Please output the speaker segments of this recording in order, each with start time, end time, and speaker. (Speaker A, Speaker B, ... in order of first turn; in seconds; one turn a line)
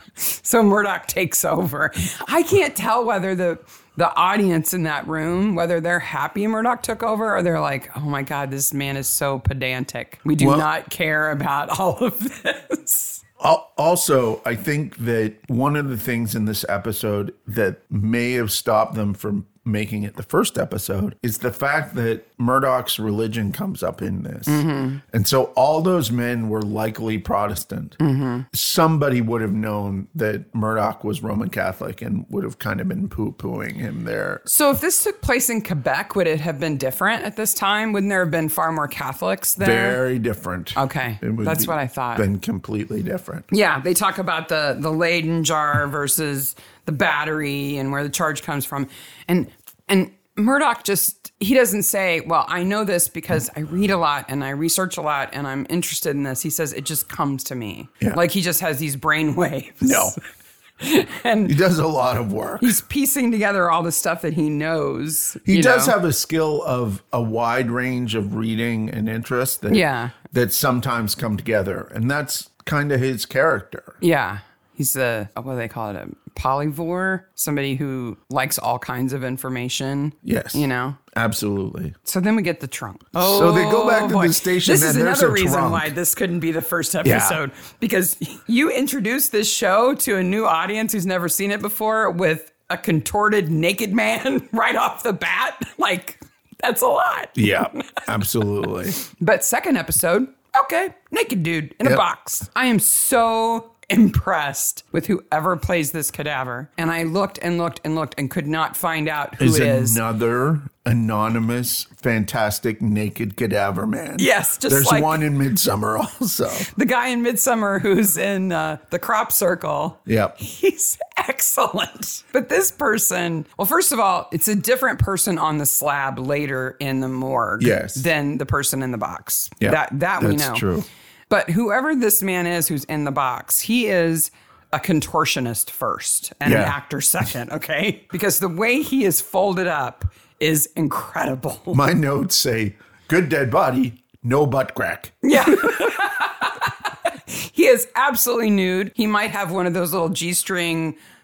Speaker A: 0.2-13.2
Speaker B: 10.4-10.7
Speaker B: 13.4-28.0
Speaker A: 24.5-25.0
Speaker A: 28.0-28.5
Speaker B: 28.5-34.5
Speaker A: 34.5-40.0
Speaker B: 39.6-43.5
Speaker A: 40.8-42.2
Speaker A: 43.5-60.2
Speaker B: 59.8-60.1
Speaker A: 60.8-61.5
Speaker B: 61.5-62.7
Speaker A: 62.6-66.0
Speaker B: 65.4-74.0
Speaker A: 69.7-70.1
Speaker A: 74.0-81.0
Speaker B: 80.2-82.0
Speaker A: 82.0-98.1
Speaker B: 83.1-85.9
Speaker B: 87.0-87.4
Speaker B: 97.3-99.0
Speaker A: 99.0-110.0
Speaker B: 109.4-116.7
Speaker A: 114.2-115.2
Speaker A: 116.6-130.7
Speaker B: 120.1-120.3
Speaker B: 127.6-128.1
Speaker B: 129.6-130.9
Speaker A: 131.3-141.8
Speaker B: 136.4-136.8
Speaker B: 141.7-145.9
Speaker A: 145.2-146.7
Speaker A: 147.3-150.9